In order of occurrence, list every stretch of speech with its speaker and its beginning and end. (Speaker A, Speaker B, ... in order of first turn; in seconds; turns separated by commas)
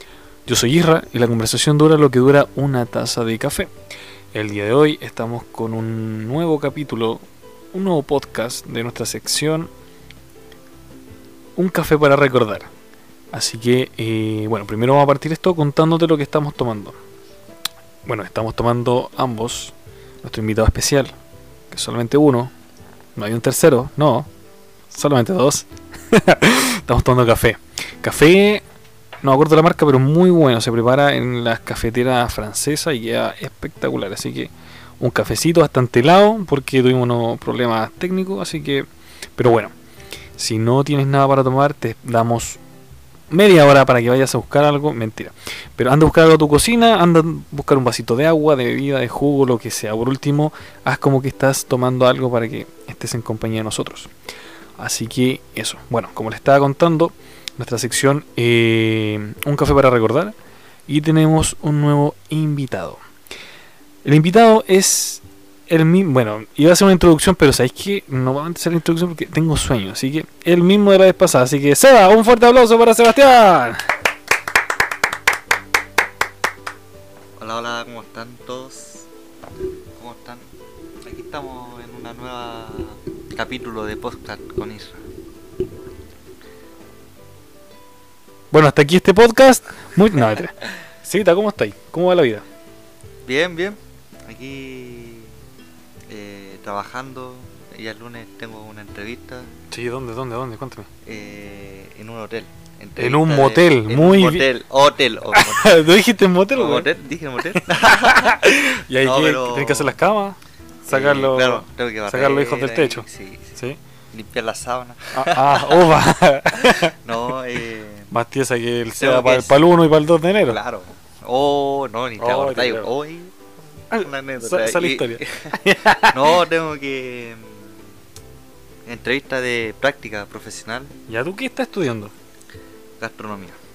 Speaker A: 0.5-3.7, Speaker A: 4.3-9.7, Speaker A: 11.6-12.7, Speaker A: 13.3-17.0, Speaker A: 18.1-21.1, Speaker A: 21.7-22.5, Speaker A: 23.2-24.3, Speaker A: 24.9-28.6, Speaker A: 29.2-39.7, Speaker A: 40.4-42.6, Speaker A: 43.3-54.1, Speaker A: 54.8-60.3, Speaker A: 60.9-63.0, Speaker A: 64.0-73.9, Speaker B: 77.4-79.1, Speaker B: 80.0-80.5, Speaker B: 81.0-85.0, Speaker A: 88.5-92.5, Speaker B: 93.2-95.3, Speaker B: 96.1-99.5, Speaker A: 99.7-100.9, Speaker B: 101.0-105.8, Speaker A: 103.0-104.5, Speaker A: 105.3-106.9, Speaker B: 106.5-108.4, Speaker A: 107.5-113.8, Speaker B: 109.0-110.0, Speaker B: 110.9-113.6, Speaker B: 114.1-115.9, Speaker A: 115.1-117.0, Speaker B: 116.5-118.1, Speaker A: 118.1-120.6, Speaker B: 119.0-119.6, Speaker B: 120.5-123.4, Speaker A: 122.2-122.9, Speaker B: 123.9-125.6, Speaker A: 123.9-126.4, Speaker B: 126.1-127.9, Speaker B: 128.9-130.9, Speaker A: 131.1-132.1, Speaker B: 133.0-133.6